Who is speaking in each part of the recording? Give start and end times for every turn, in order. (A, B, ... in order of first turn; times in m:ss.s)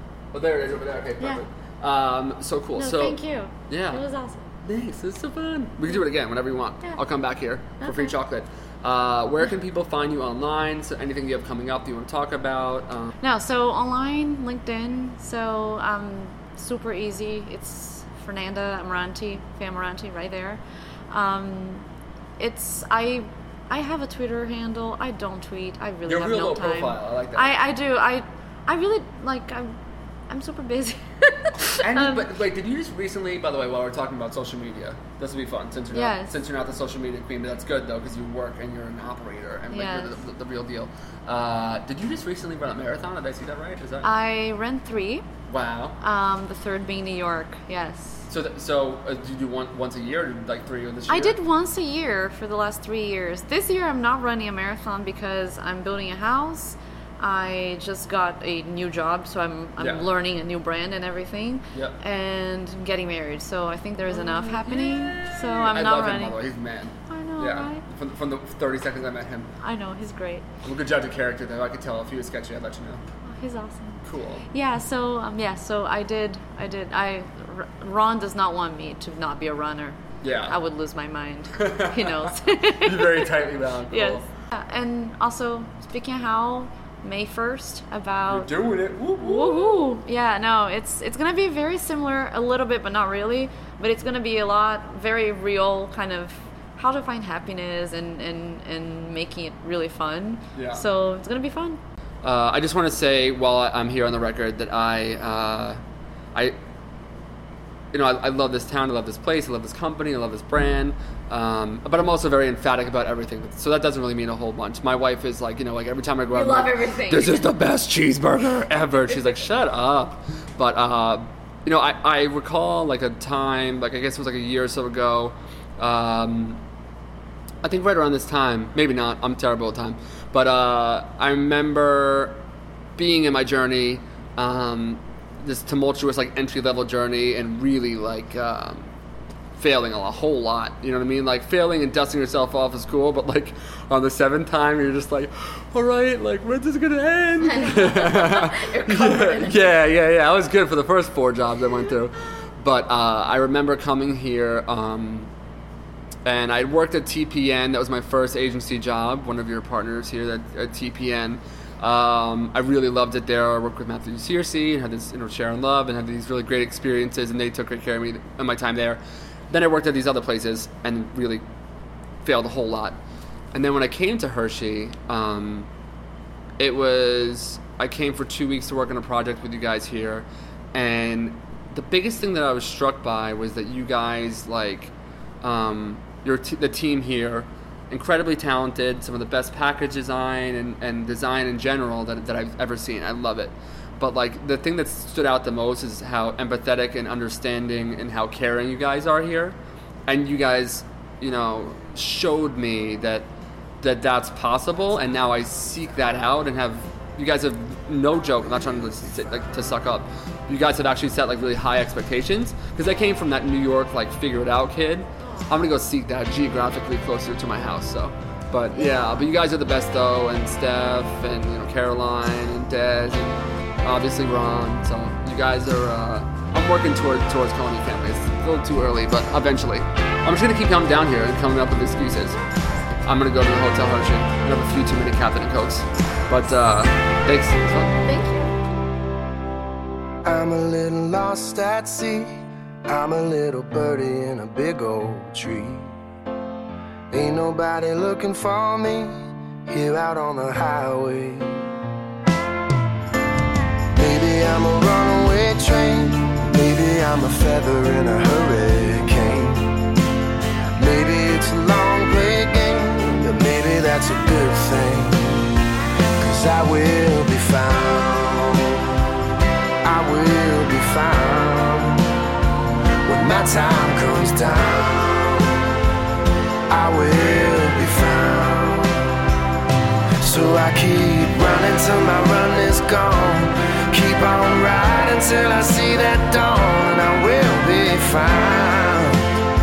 0:00.3-0:04.0 A
0:02.8-0:04.5 B
0:04.6-0:13.1 A
0:07.8-0:08.1 B
0:13.2-0:21.8 B
0:22.4-0:29.7 B
0:26.0-0:27.6 A
0:30.3-0:32.2 B
0:31.7-0:44.1 A
0:35.9-0:36.3 B
0:39.7-0:40.2 B
0:44.0-0:45.3 B
0:45.5-0:46.0 A
0:46.0-0:48.3 B
0:48.3-0:51.4 A
0:51.1-1:06.4 B
0:59.8-1:00.1 A
1:01.7-1:02.0 A
1:04.1-1:09.5 A
1:07.1-1:07.8 B
1:09.6-1:10.4 B
1:10.6-1:13.0 A
1:13.2-1:23.3 B
1:14.0-1:14.5 A
1:20.2-1:20.6 A
1:21.5-1:24.3 A
1:23.9-1:28.5 B
1:28.3-1:30.0 A
1:29.2-1:41.8 B
1:40.5-1:40.8 A
1:42.2-1:45.8 A
1:47.9-2:06.6 A
1:56.3-1:57.5 B
2:07.6-2:12.4 A
2:13.0-2:18.9 A
2:19.6-2:35.3 A
2:27.4-2:29.8 B
2:36.2-2:51.4 A
2:52.2-2:53.0 A
2:53.5-2:55.7 A
2:56.6-3:23.3 A
3:23.8-3:52.4 A
3:53.0-3:58.0 A
3:58.0-3:58.5 B
4:00.2-4:05.9 C
4:07.1-4:11.7 C
4:13.9-4:19.8 C
4:20.8-4:25.6 C
4:26.2-4:28.9 C
4:29.8-4:32.1 C
4:33.0-4:35.6 C
4:36.7-4:39.0 C
4:40.2-4:49.3 C